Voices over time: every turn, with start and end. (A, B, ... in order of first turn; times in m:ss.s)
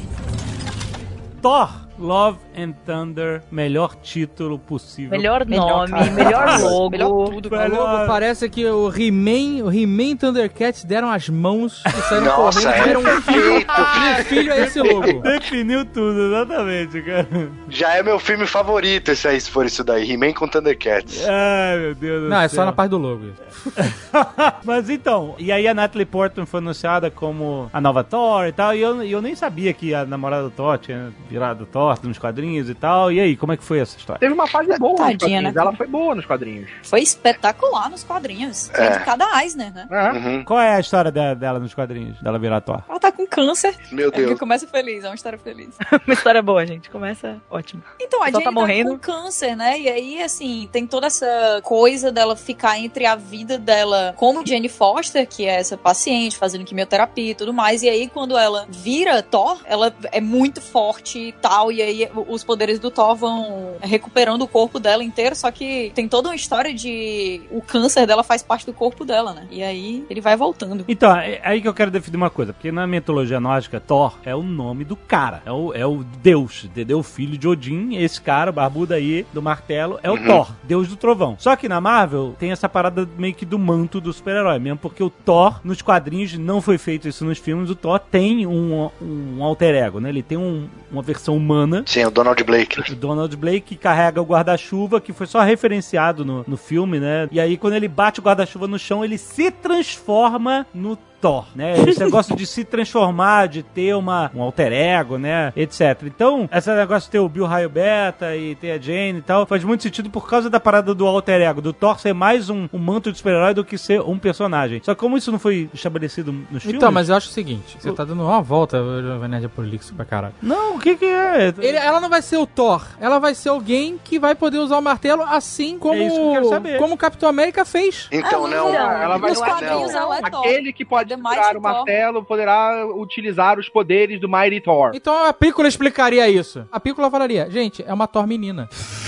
0:01.4-0:05.3 A
0:05.1-0:07.4 B
0:05.5-0:07.7 C
0:06.0-0:06.7 A
0:07.5-0:08.2 A
0:07.5-0:15.3 D
0:12.1-0:15.2 E
0:12.7-0:17.6 A
0:17.7-0:21.3 E
0:21.1-0:22.8 A
0:22.3-0:23.7 D
0:23.8-0:34.2 A
0:34.2-0:36.8 F
0:35.0-0:35.8 C
0:36.8-0:39.9 C
0:38.7-0:39.1 E
0:39.9-0:40.2 F
0:40.1-0:40.5 E
0:40.4-0:42.8 A
0:42.9-0:45.8 C
0:43.9-0:44.4 E
0:45.8-0:49.0 B
0:48.0-1:10.9 C
1:10.9-1:31.9 A
1:20.1-1:20.4 E
1:31.9-1:32.9 E
1:32.9-1:57.1 A
1:56.6-2:00.4 D
2:00.4-2:01.8 A
2:01.6-2:08.1 D
2:05.9-2:06.9 A
2:08.1-2:10.2 E
2:08.2-2:12.0 C
2:08.6-2:15.0 F
2:14.9-2:18.7 D